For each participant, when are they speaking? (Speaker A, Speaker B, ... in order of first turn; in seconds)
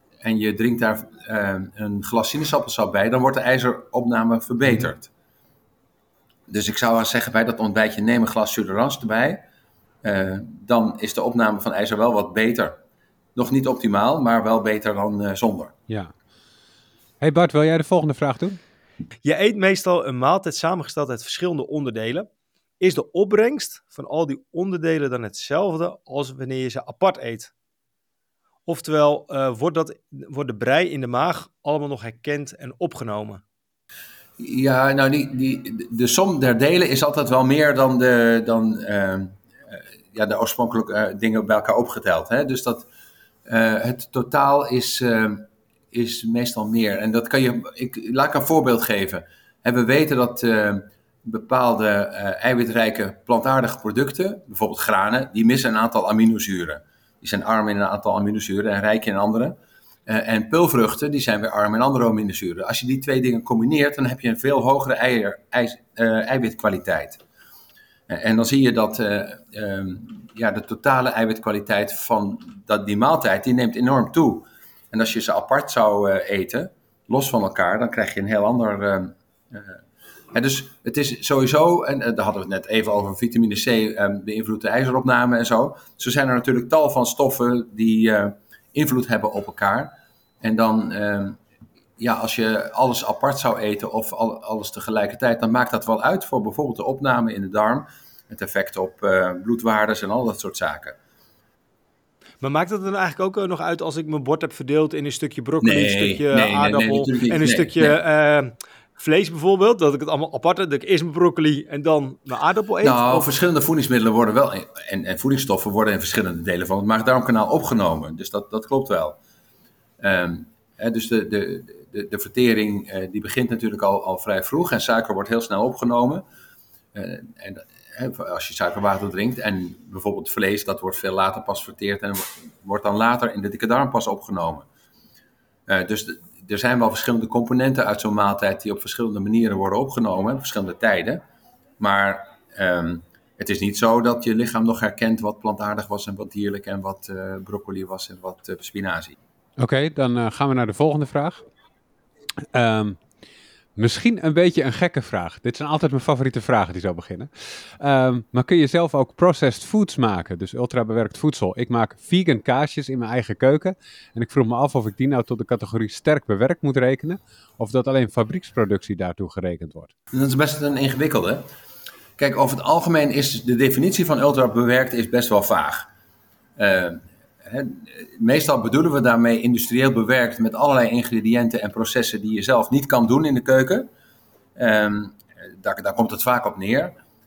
Speaker A: 0.2-5.1, 6.5-9.4, 10.0-12.7, 13.3-15.7, 34.4-39.4, 40.1-42.9, 43.5-67.2, 68.1-79.8, 80.3-91.4, 92.0-101.0, 105.6-107.9, 112.8-119.2, 120.0-126.2, 126.9-134.6, 135.7-141.2, 141.8-149.1, 170.1-171.4, 172.2-175.9, 176.6-183.9, 184.6-186.9
Speaker B: 17.2-18.6, 149.6-151.4, 152.5-153.0, 153.8-169.9
Speaker C: 19.2-22.3, 22.8-27.5, 28.6-33.4, 102.4-113.3